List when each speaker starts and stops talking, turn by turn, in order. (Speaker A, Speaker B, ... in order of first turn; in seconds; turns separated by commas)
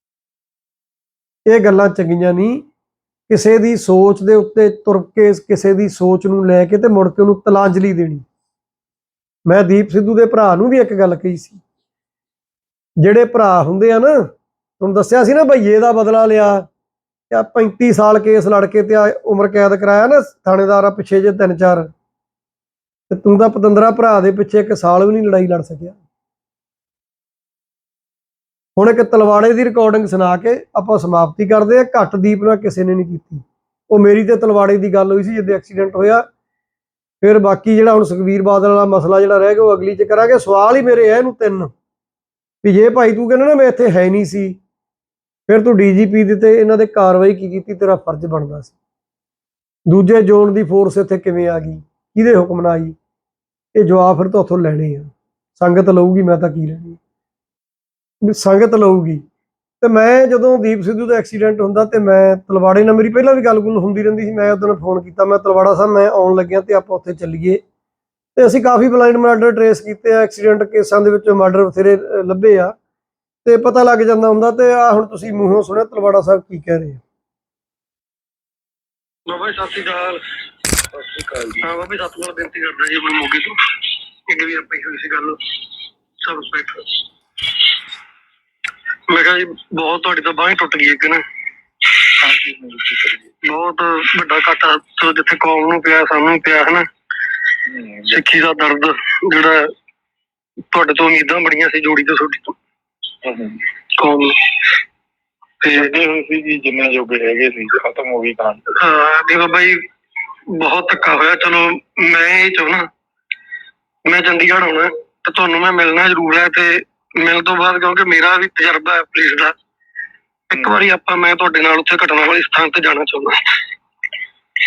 Speaker A: 1.5-2.6, Speaker A: 3.3-8.2, Speaker A: 9.5-11.6, Speaker A: 13.0-14.3, Speaker A: 14.8-16.6, Speaker A: 17.3-21.9, Speaker A: 23.1-25.9, Speaker A: 28.8-36.2, Speaker A: 37.2-41.7, Speaker A: 42.6-44.6, Speaker A: 45.5-48.7, Speaker A: 49.9-53.0, Speaker A: 53.8-57.0, Speaker A: 58.2-59.2, Speaker A: 59.8-67.6, Speaker A: 68.3-72.8, Speaker A: 73.4-77.0, Speaker B: 79.3-80.2, Speaker B: 81.6-83.6, Speaker B: 84.3-85.4, Speaker B: 86.2-86.9, Speaker B: 89.1-91.2, Speaker C: 92.2-93.2, Speaker B: 93.4-96.8, Speaker C: 97.7-98.2, Speaker B: 98.1-99.7, Speaker B: 100.7-102.5, Speaker C: 103.2-103.6, Speaker B: 104.0-104.4, Speaker B: 105.6-105.9, Speaker C: 105.7-108.6, Speaker B: 108.8-109.8, Speaker B: 110.5-112.8, Speaker B: 114.0-119.5, Speaker B: 120.5-123.4